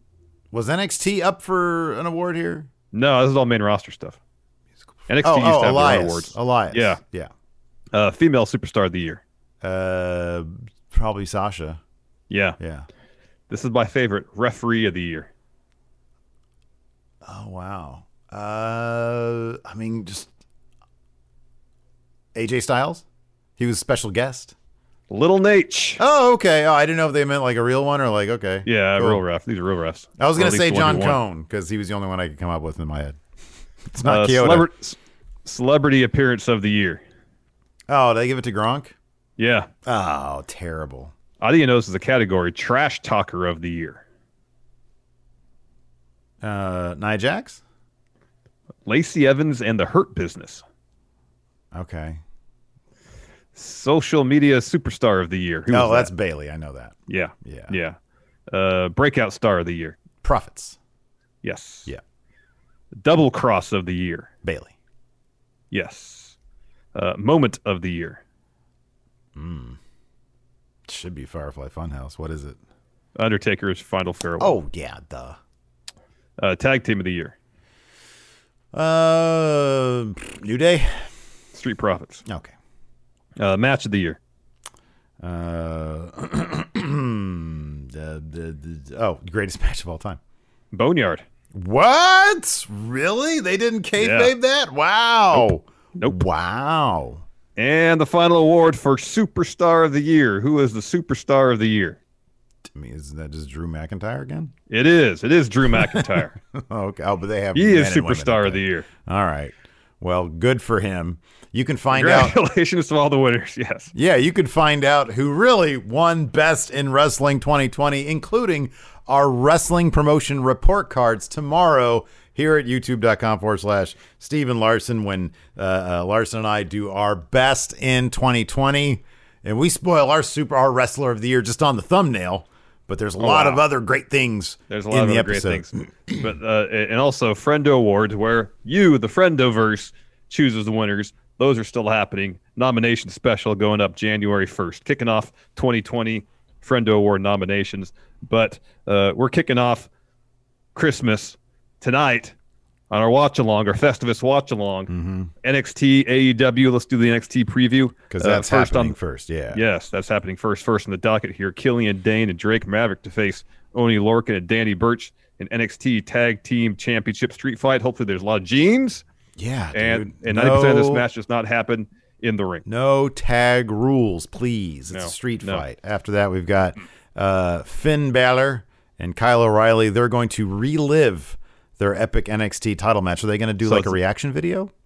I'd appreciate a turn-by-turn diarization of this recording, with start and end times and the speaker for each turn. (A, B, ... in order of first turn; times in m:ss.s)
0:00.5-0:02.7 A
0:02.9-0:04.2 B
0:05.1-0:07.0 B
0:05.2-0:07.3 A
0:07.9-0:09.2 B
0:09.6-0:11.8 A
0:12.3-0:12.6 B
0:12.6-0:12.9 A
0:13.5-0:15.3 B
0:17.2-0:20.3 A
0:22.4-0:23.0 A
0:23.6-0:24.6 A
0:25.1-0:26.0 B
0:26.0-0:29.2 A
0:28.7-0:31.2 B
0:30.2-0:33.2 A
0:33.9-0:34.7 A
0:34.0-0:37.0 B
0:37.9-0:39.0 A
0:39.4-0:39.7 B
0:39.9-0:41.1 A
0:41.4-0:44.0 B
0:46.4-0:47.6 A
0:48.9-0:50.6 B
0:51.7-0:52.2 A
0:53.6-0:56.1 B
0:55.7-0:57.8 A
0:57.1-0:58.0 B
0:58.5-1:00.0 B
1:00.2-1:00.8 A
1:01.4-1:01.9 B
1:03.0-1:04.3 B
1:04.4-1:04.7 A
1:05.7-1:06.4 B
1:07.0-1:08.2 B
1:09.4-1:09.8 A
1:10.9-1:12.6 A
1:13.2-1:14.6 B
1:14.4-1:15.4 A
1:16.4-1:17.4 B
1:18.7-1:20.9 A
1:21.5-1:22.2 B
1:22.3-1:22.5 A
1:23.4-1:24.2 B
1:25.2-1:30.2 A
1:30.7-1:31.2 B
1:31.5-1:37.2 A
1:34.0-1:34.3 B
1:35.3-1:36.2 B
1:37.6-1:42.0 B
1:42.7-1:44.5 A
1:44.7-1:46.4 B
1:45.8-1:52.4 A
1:47.6-1:48.9 B
1:51.9-1:53.9 B
1:53.9-2:16.2 A
2:13.2-2:13.6 B
2:14.7-2:29.9 B
2:30.8-2:32.4 B
2:32.9-2:34.9 B
2:34.9-2:35.3 A
2:35.4-2:39.0 B
2:38.1-2:39.6 A
2:39.5-2:49.0 B
2:49.4-2:51.0 A
2:49.7-2:52.6 B
2:52.6-3:04.7 A
2:54.9-2:55.6 B
3:03.6-3:04.0 B